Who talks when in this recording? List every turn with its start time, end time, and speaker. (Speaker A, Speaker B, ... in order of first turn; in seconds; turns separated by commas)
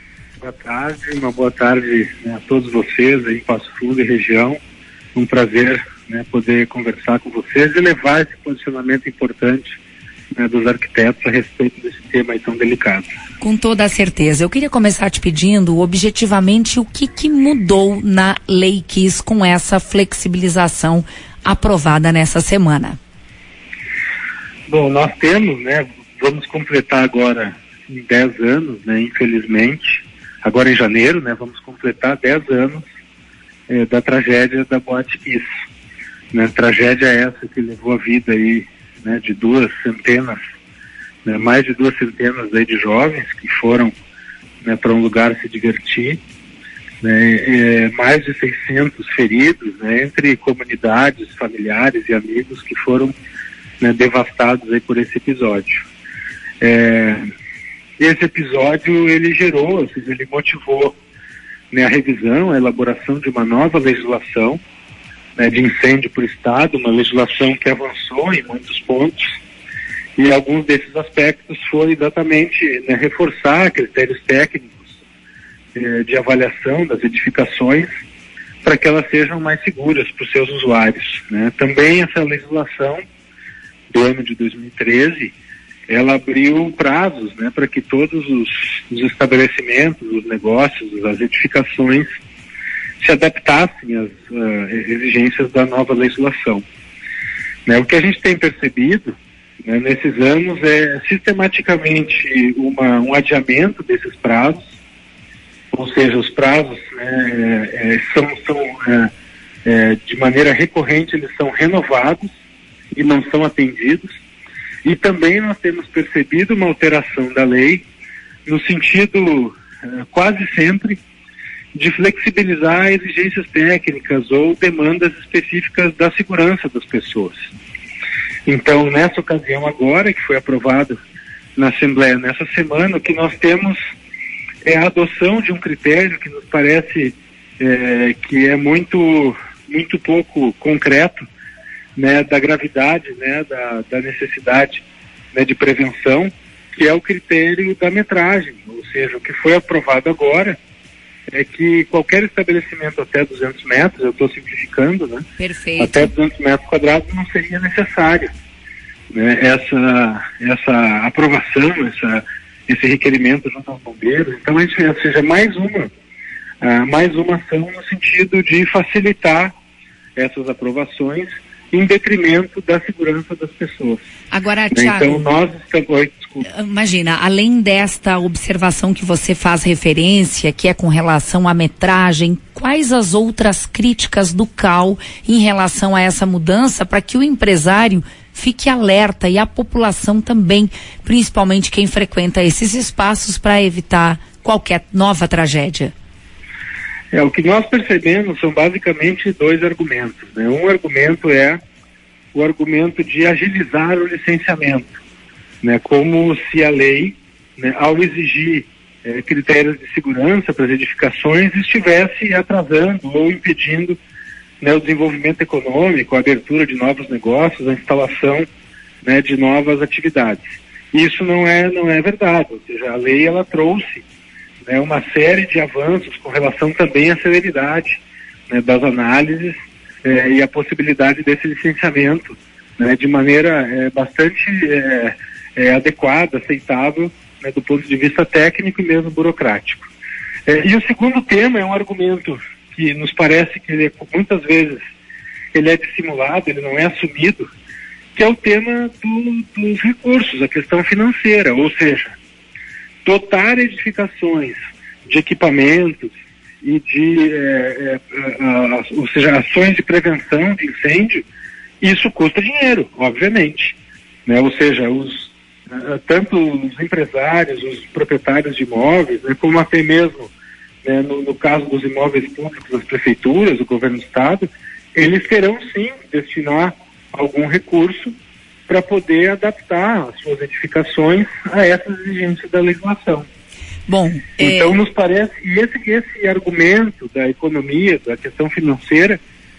Speaker A: 0.4-4.6, Speaker A: 5.2-9.8, Speaker A: 10.3-13.1, Speaker B: 13.4-23.0, Speaker A: 24.7-32.8, Speaker A: 33.7-35.4, Speaker A: 36.3-40.4, Speaker A: 41.2-43.9, Speaker A: 44.6-46.2, Speaker A: 47.0-53.2, Speaker A: 53.8-55.9, Speaker A: 56.6-57.3, Speaker A: 58.0-61.0, Speaker A: 61.7-64.6, Speaker A: 65.4-69.3, Speaker A: 70.2-75.0, Speaker A: 75.7-77.9, Speaker A: 78.6-83.0, Speaker A: 83.9-85.3, Speaker A: 85.9-92.1, Speaker A: 93.0-96.6, Speaker A: 97.7-99.1, Speaker A: 99.7-104.6, Speaker A: 105.7-109.1, Speaker A: 109.7-112.3, Speaker A: 113.0-114.2, Speaker A: 114.8-117.8, Speaker A: 118.5-121.0, Speaker A: 121.7-127.5, Speaker A: 128.5-131.0, Speaker A: 131.6-133.8, Speaker A: 134.6-141.2, Speaker A: 142.0-150.6, Speaker A: 151.3-155.2, Speaker B: 155.4-156.1, Speaker A: 155.8-158.3, Speaker A: 159.1-165.9, Speaker A: 166.6-169.5, Speaker A: 170.2-174.0, Speaker B: 174.3-175.3, Speaker A: 174.7-176.5, Speaker B: 176.4-195.9, Speaker A: 197.1-201.6, Speaker A: 202.3-204.9, Speaker A: 205.6-214.0, Speaker A: 214.6-218.5, Speaker A: 219.0-224.1, Speaker A: 224.6-239.9, Speaker A: 240.5-244.8, Speaker A: 245.5-247.5, Speaker A: 248.2-252.2, Speaker A: 253.0-254.6, Speaker A: 255.1-261.3, Speaker A: 261.8-270.3, Speaker A: 270.8-278.1, Speaker A: 278.7-283.3, Speaker B: 283.9-284.8, Speaker A: 284.4-289.2